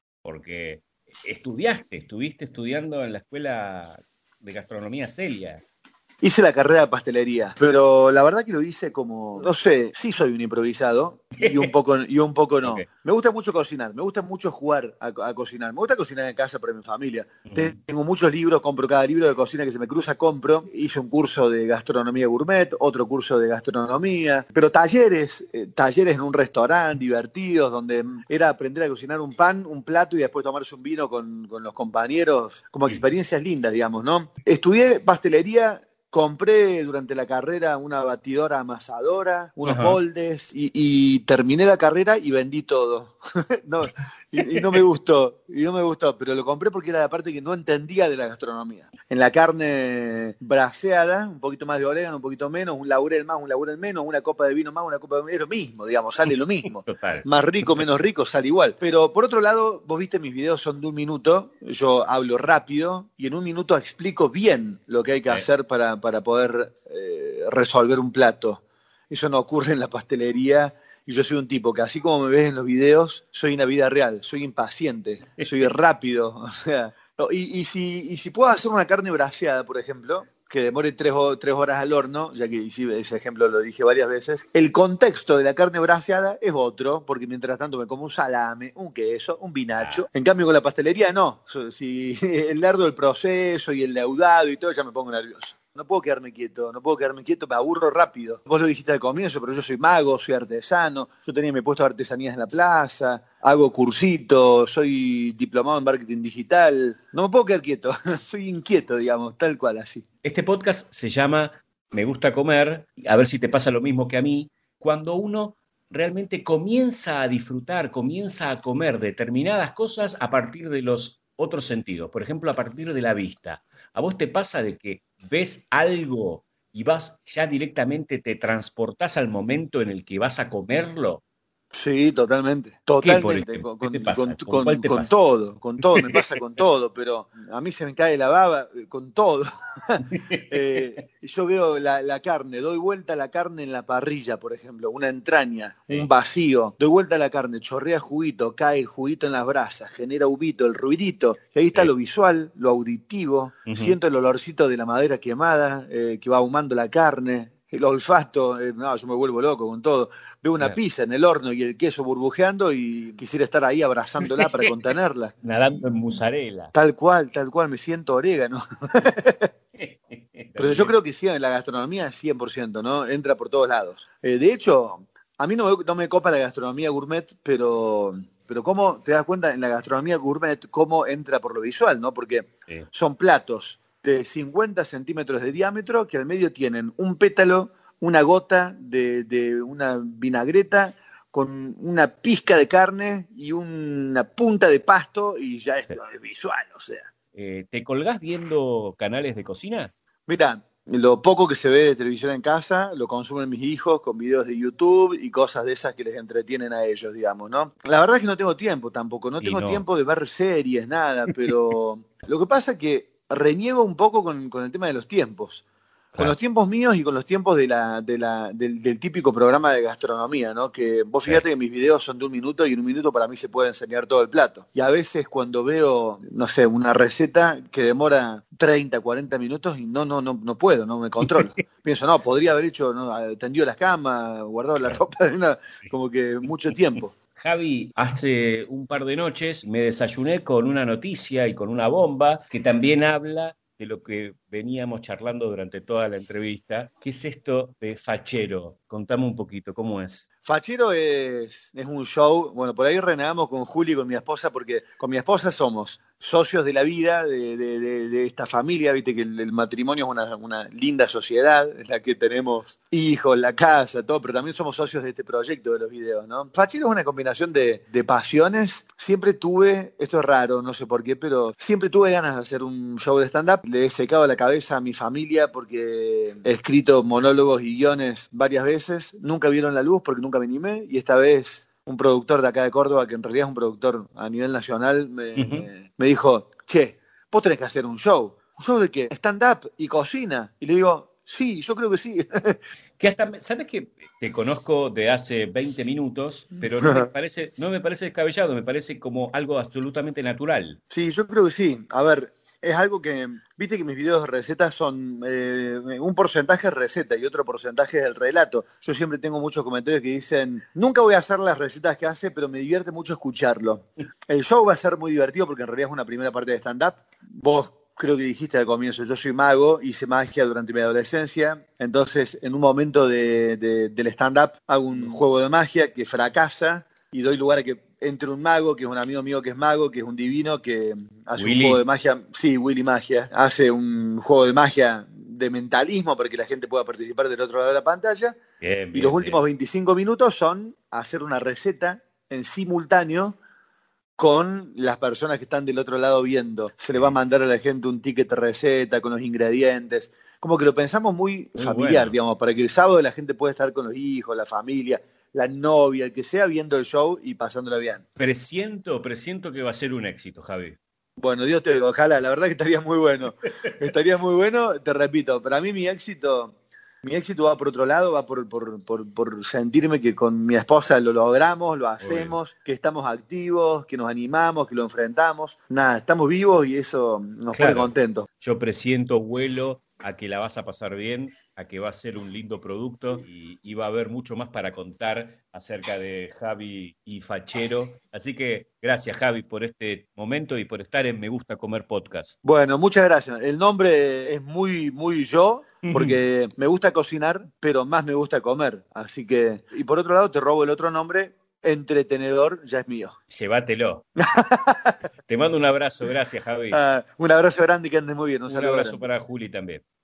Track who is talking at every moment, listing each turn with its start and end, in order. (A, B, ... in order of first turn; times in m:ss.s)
0:00.2-0:05.6 A
0:06.2-1:50.0 B
0:11.4-0:11.7 A
0:17.5-0:17.8 A
0:39.6-0:40.0 A
0:44.4-0:44.8 A
0:56.8-0:57.9 A
1:15.4-1:15.7 A
1:29.8-1:30.0 A
1:50.2-2:11.2 A
2:11.7-2:45.3 B
2:13.0-2:15.1 A
2:15.8-2:16.3 A
2:20.0-2:20.8 A
2:33.7-2:33.9 A
2:44.2-2:44.7 A
2:45.4-2:46.7 A
2:46.7-2:49.5 B
2:49.8-2:50.9 A
2:50.6-3:17.1 B
3:17.3-3:19.9 A
3:20.3-3:35.6 B
3:29.4-3:29.8 A
3:36.2-3:57.1 B
3:57.4-4:10.2 A
4:10.4-4:52.6 B
4:45.4-4:45.7 A
4:53.0-5:00.8 A
4:56.8-4:57.1 B
5:00.9-5:38.4 B
5:31.4-5:31.8 A
5:38.6-5:39.4 A
5:38.9-5:43.4 B
5:44.2-5:58.0 B
5:51.6-5:52.2 A
5:58.2-6:00.8 A
6:01.2-6:18.3 B
6:12.0-6:12.3 A
6:17.5-6:32.3 A
6:32.4-6:43.2 B
6:35.9-6:36.2 A
6:43.3-6:44.0 A
6:44.2-6:45.0 B
6:45.3-6:46.8 A
6:46.7-6:49.0 B
6:48.5-6:49.8 A